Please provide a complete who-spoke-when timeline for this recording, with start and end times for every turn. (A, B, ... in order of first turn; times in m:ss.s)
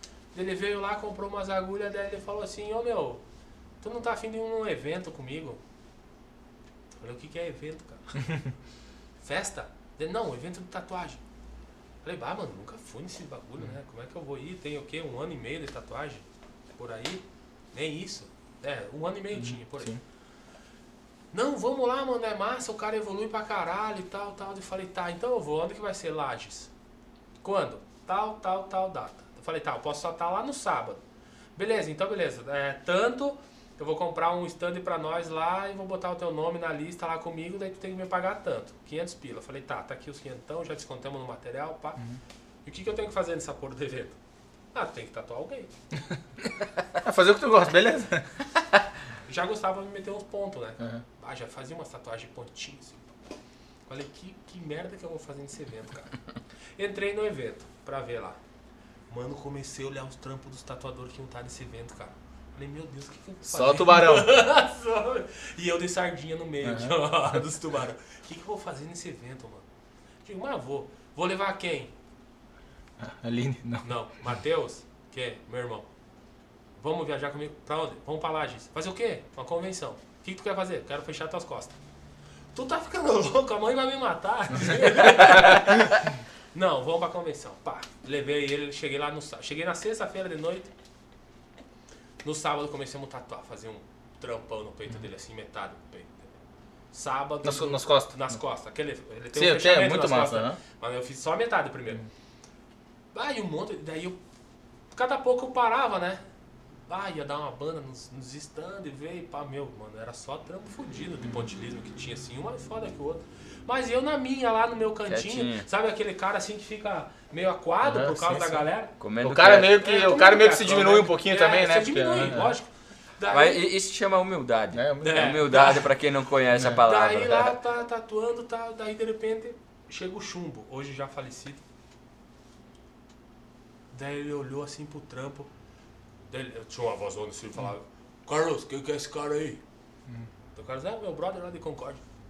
0:00.3-0:03.2 A
0:03.8-0:05.6 A
0:07.0-0:08.4 A
0:09.2-0:11.2 A
0:12.0-0:20.0 A
0:19.4-0:20.0 B
0:21.3-0:26.7 A
0:27.4-0:31.0 A
0:31.6-0:42.0 A
0:42.6-0:44.2 A
0:44.7-0:45.7 A
0:47.0-0:48.3 B
0:49.3-0:53.1 A
0:53.9-0:56.1 A
0:56.8-0:58.4 A
0:59.1-1:09.6 A
1:03.4-1:04.3 B
1:06.6-1:07.0 B
1:10.2-1:11.9 A
1:13.0-1:13.8 B
1:13.8-1:15.9 A
1:16.8-1:21.8 A
1:22.5-1:30.7 A
1:32.2-1:36.3 A
1:36.9-1:42.0 A
1:37.4-1:38.1 B
1:39.3-1:40.6 B
1:43.1-1:44.2 A
1:44.9-1:46.2 A
1:46.9-1:58.9 A
1:55.1-1:55.6 C
1:57.8-1:58.6 B
1:59.0-1:59.8 C
1:59.2-2:02.5 B
1:59.7-2:03.6 A
2:03.3-2:07.6 C
2:04.7-2:05.3 B
2:05.0-2:05.9 A
2:06.8-2:11.6 A
2:13.9-2:15.5 A
2:16.3-2:19.6 A
2:20.5-2:22.0 A